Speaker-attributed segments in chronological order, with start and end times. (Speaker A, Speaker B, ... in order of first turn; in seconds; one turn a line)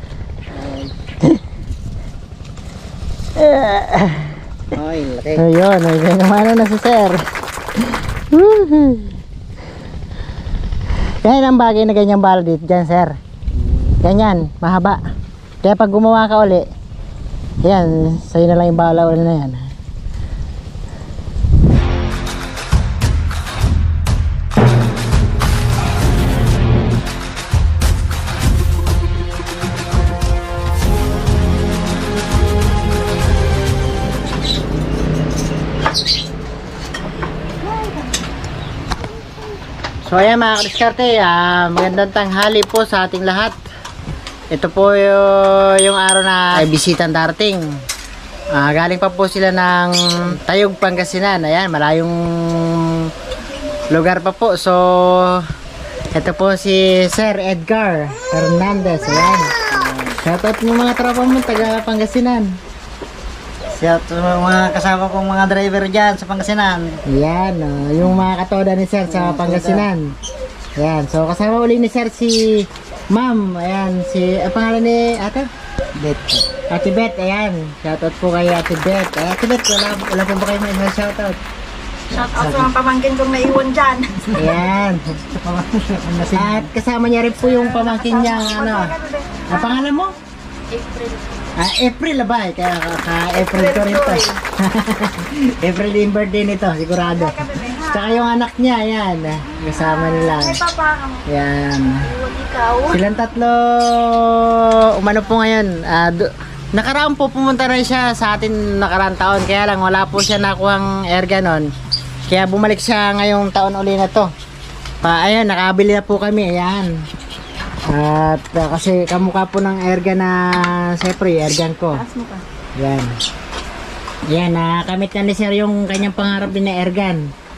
Speaker A: 0.5-0.9
Speaker B: 3.4-4.4
Speaker A: 4.7-5.4
Speaker B: 5.4-7.2
Speaker B: 7.8-9.2
Speaker B: 11.2-13.2
Speaker A: 13.6-13.9
Speaker B: 14.0-15.0
Speaker B: 15.6-16.7
Speaker B: 17.6-19.7
Speaker B: 40.0-43.6
Speaker B: 44.5-47.8
Speaker B: 48.5-53.1
Speaker B: 53.9-55.5
Speaker B: 56.1-59.5
Speaker A: 59.5-60.2
Speaker B: 60.2-62.6
Speaker A: 63.8-67.0
Speaker B: 67.1-70.1
Speaker A: 69.1-69.9
Speaker B: 70.8-75.5
Speaker A: 76.0-76.5
Speaker B: 76.7-81.4
Speaker C: 82.1-84.3
Speaker A: 82.3-82.7
Speaker B: 84.3-85.0
Speaker A: 85.4-86.7
Speaker B: 86.3-88.9
Speaker C: 87.4-89.9
Speaker B: 89.5-90.2
Speaker C: 90.7-91.2
Speaker B: 91.6-100.6
Speaker C: 93.3-94.4
Speaker C: 97.0-98.2
Speaker C: 99.7-101.2
Speaker B: 101.3-102.0
Speaker C: 102.0-103.0
Speaker B: 102.9-111.7
Speaker B: 112.3-114.3
Speaker B: 115.0-116.9
Speaker B: 117.9-122.0
Speaker C: 121.9-122.4
Speaker B: 122.8-123.2
Speaker B: 124.3-127.3